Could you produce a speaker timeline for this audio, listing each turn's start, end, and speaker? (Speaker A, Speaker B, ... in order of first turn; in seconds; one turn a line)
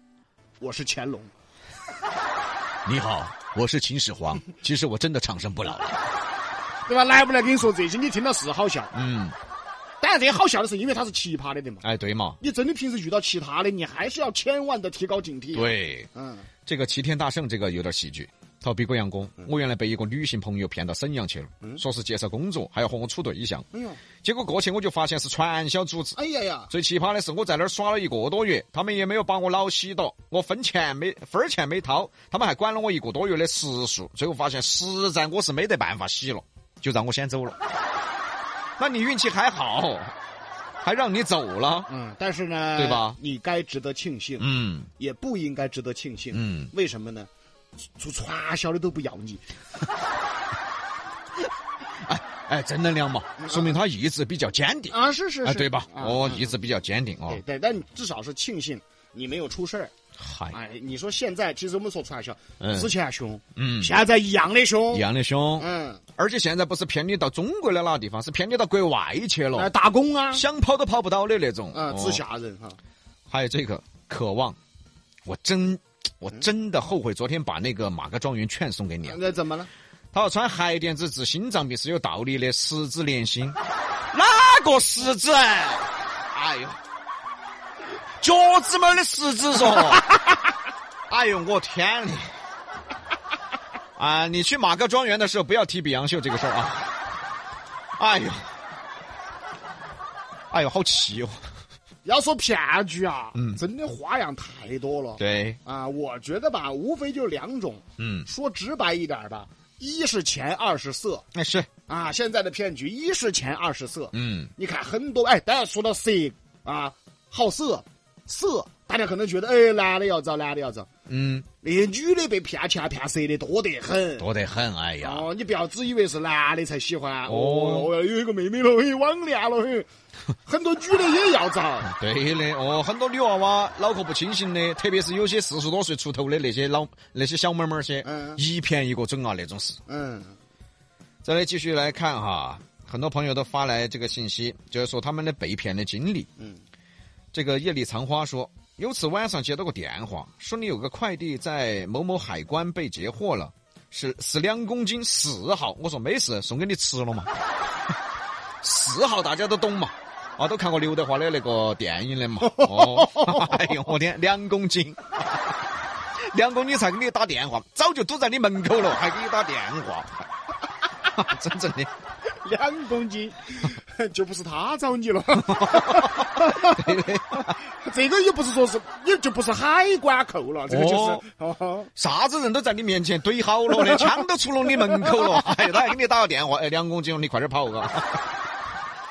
Speaker A: 0.6-1.3
Speaker B: 2.9-6.0
Speaker A: 6.9-8.9
Speaker B: 8.9-9.3
Speaker A: 10.0-11.8
Speaker B: 11.8-12.4
Speaker A: 12.4-16.5
Speaker B: 15.5-16.1
Speaker B: 16.7-23.7
Speaker A: 23.7-24.0
Speaker B: 24.2-26.2
Speaker A: 26.1-26.7
Speaker B: 26.7-37.6
Speaker B: 38.8-40.1
Speaker B: 40.8-41.9
Speaker A: 41.9-44.5
Speaker B: 42.8-43.2
Speaker B: 44.4-44.9
Speaker A: 45.0-47.3
Speaker B: 46.3-46.7
Speaker A: 48.0-49.4
Speaker B: 52.0-57.4
Speaker A: 53.4-53.8
Speaker A: 54.9-56.5
Speaker A: 57.3-59.9
Speaker B: 60.2-60.6
Speaker A: 60.5-65.0
Speaker B: 62.6-62.9
Speaker B: 63.6-63.9
Speaker B: 64.9-69.7
Speaker A: 65.6-66.0
Speaker A: 69.5-70.4
Speaker B: 70.3-72.2
Speaker A: 71.7-72.8
Speaker B: 73.3-74.6
Speaker B: 75.3-79.2
Speaker A: 79.0-79.7
Speaker B: 80.1-83.6
Speaker B: 84.1-86.8
Speaker B: 88.2-90.1
Speaker B: 91.1-92.2
Speaker B: 94.0-96.9
Speaker B: 98.0-98.5
Speaker B: 100.5-101.4
Speaker A: 102.0-111.2
Speaker B: 103.3-103.6
Speaker B: 105.2-105.6
Speaker B: 108.0-108.3
Speaker B: 111.3-111.7
Speaker A: 111.9-120.9
Speaker B: 114.1-114.5
Speaker B: 121.1-121.5
Speaker A: 121.6-124.3
Speaker B: 124.2-125.3
Speaker A: 125.0-129.9
Speaker B: 127.3-127.9
Speaker A: 130.5-131.9
Speaker B: 131.9-139.8
Speaker A: 138.0-138.4
Speaker A: 139.9-140.3
Speaker B: 141.2-146.3
Speaker B: 147.3-157.3
Speaker B: 158.6-165.2
Speaker A: 162.4-163.8
Speaker B: 166.3-170.2
Speaker B: 171.0-171.9
Speaker A: 172.4-181.9
Speaker B: 175.4-177.6
Speaker B: 180.7-181.2
Speaker B: 182.0-188.3